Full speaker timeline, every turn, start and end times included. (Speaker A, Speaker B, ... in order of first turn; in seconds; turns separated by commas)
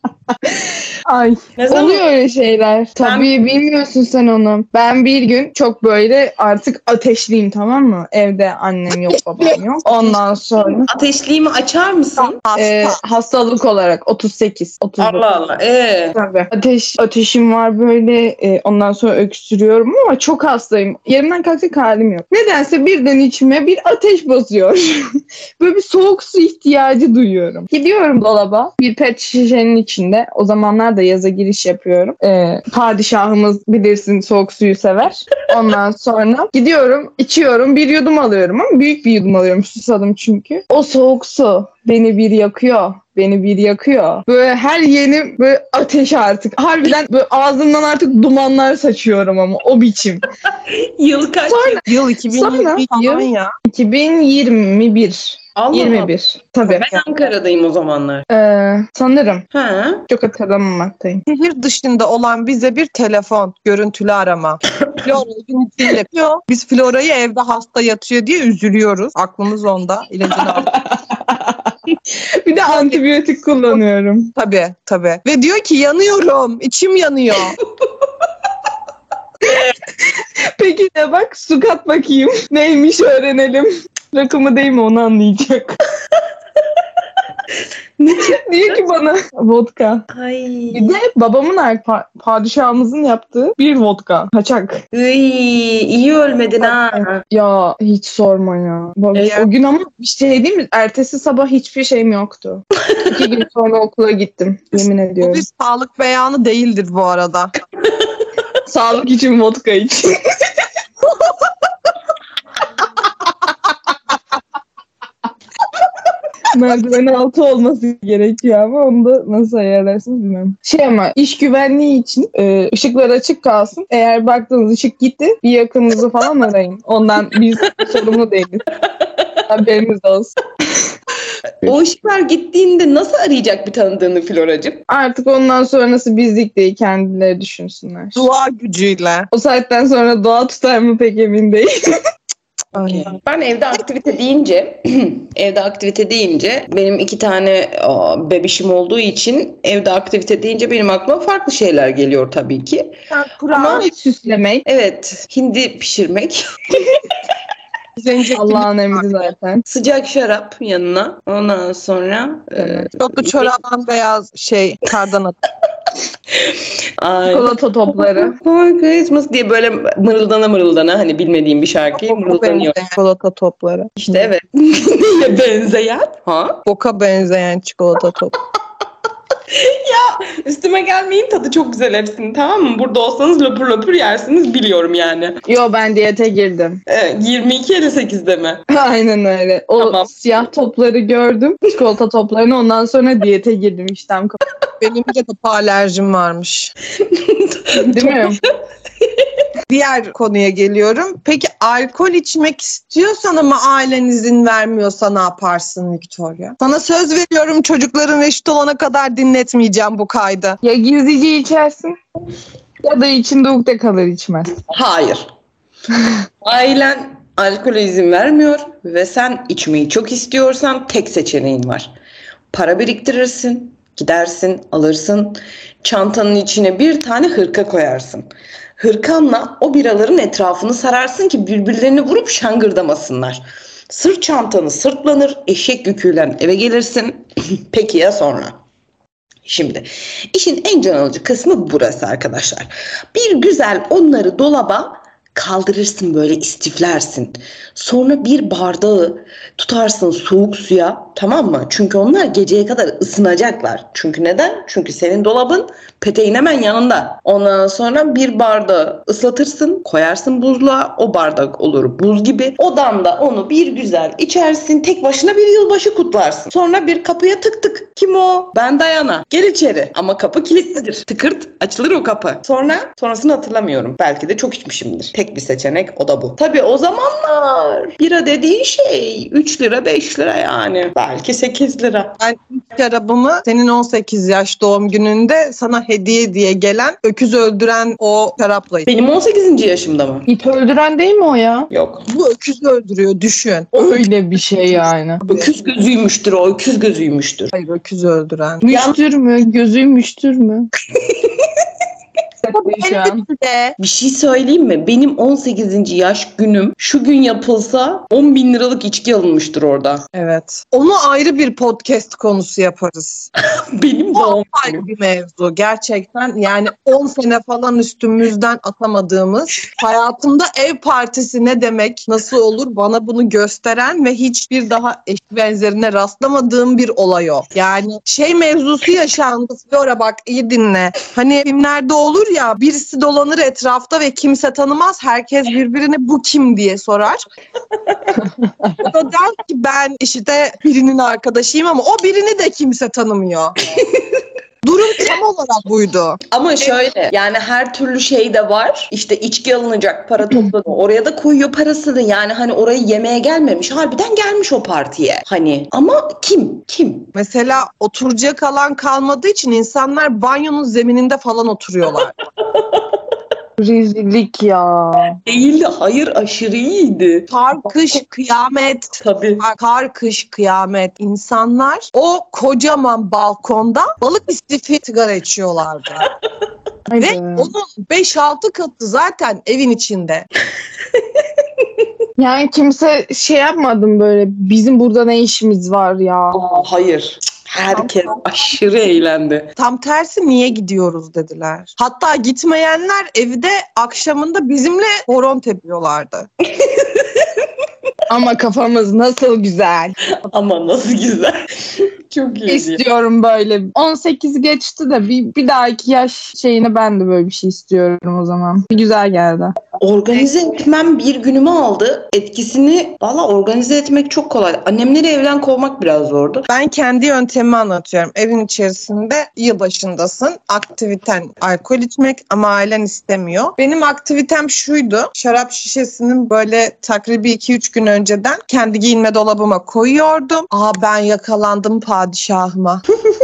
Speaker A: 0.4-10.9, Speaker B: 1.6-2.0, Speaker B: 3.0-3.3, Speaker C: 9.1-10.1, Speaker B: 10.5-12.4, Speaker C: 12.4-13.0, Speaker A: 12.5-15.2, Speaker B: 15.0-16.2, Speaker A: 16.1-50.2, Speaker B: 50.5-51.8, Speaker A: 51.5-56.9, Speaker C: 51.9-53.5, Speaker B: 55.5-56.1, Speaker B: 56.7-58.2, Speaker A: 58.3-59.4, Speaker B: 59.5-60.0, Speaker A: 60.1-61.2, Speaker C: 61.2-70.8, Speaker A: 70.3-74.3, Speaker C: 72.7-73.0, Speaker C: 74.3-77.6, Speaker A: 79.5-85.8, Speaker B: 88.0-88.8, Speaker A: 88.1-90.0, Speaker B: 90.1-91.0, Speaker A: 90.7-94.8, Speaker B: 94.9-97.2, Speaker A: 96.6-105.4, Speaker C: 99.1-99.5, Speaker B: 102.9-103.2, Speaker C: 104.7-107.5, Speaker A: 108.6-110.4, Speaker A: 116.5-128.7, Speaker B: 127.8-128.1, Speaker B: 128.8-129.4, Speaker A: 129.5-130.3, Speaker B: 131.6-134.8, Speaker A: 134.9-138.2, Speaker C: 138.2-139.3, Speaker A: 139.3-142.0, Speaker B: 142.7-153.0, Speaker C: 142.8-143.1, Speaker C: 153.1-153.9, Speaker B: 153.5-153.8, Speaker A: 153.6-154.6, Speaker B: 154.6-157.0, Speaker C: 158.0-159.1, Speaker A: 158.3-159.6, Speaker B: 159.7-163.5, Speaker C: 162.9-165.3, Speaker B: 166.3-172.8, Speaker A: 167.3-168.3, Speaker C: 172.0-174.2, Speaker B: 174.0-176.6, Speaker C: 176.6-178.3, Speaker B: 179.5-185.4, Speaker A: 185.5-186.8, Speaker B: 186.9-188.6, Speaker A: 188.7-194.4, Speaker B: 189.8-190.1, Speaker C: 194.8-196.7, Speaker B: 197.0-198.4, Speaker A: 197.7-198.4, Speaker B: 199.0-199.4, Speaker C: 199.7-210.6, Speaker A: 210.6-212.0, Speaker A: 212.8-214.5, Speaker B: 214.7-215.3, Speaker B: 216.4-221.9, Speaker B: 222.5-228.3, Speaker B: 228.8-238.6, Speaker B: 239.4-282.1, Speaker C: 282.2-288.9, Speaker B: 288.9-290.2, Speaker A: 290.3-291.7, Speaker B: 291.7-292.1, Speaker C: 292.1-294.1, Speaker A: 293.7-295.2, Speaker C: 294.7-295.5, Speaker B: 295.3-297.5, Speaker C: 297.5-298.8, Speaker A: 298.6-300.7, Speaker B: 298.7-299.0, Speaker B: 300.9-301.6, Speaker A: 302.4-303.2, Speaker C: 302.5-303.8, Speaker B: 303.8-310.1, Speaker C: 310.1-313.3, Speaker B: 313.6-314.8, Speaker C: 314.1-337.2, Speaker C: 338.8-343.6, Speaker B: 343.7-344.2, Speaker C: 344.6-346.2, Speaker B: 346.3-357.1, Speaker C: 357.1-362.1, Speaker B: 362.4-363.0, Speaker A: 363.6-365.2, Speaker B: 365.2-367.3, Speaker C: 367.3-376.1, Speaker B: 369.0-369.4, Speaker A: 376.9-377.5, Speaker C: 377.0-380.2, Speaker B: 380.9-381.9, Speaker A: 382.2-386.4, Speaker B: 386.3-389.5, Speaker C: 389.6-396.3, Speaker B: 396.5-397.5, Speaker A: 398.1-399.9, Speaker B: 400.2-402.8, Speaker A: 402.5-409.6, Speaker B: 409.8-416.5, Speaker C: 416.5-432.8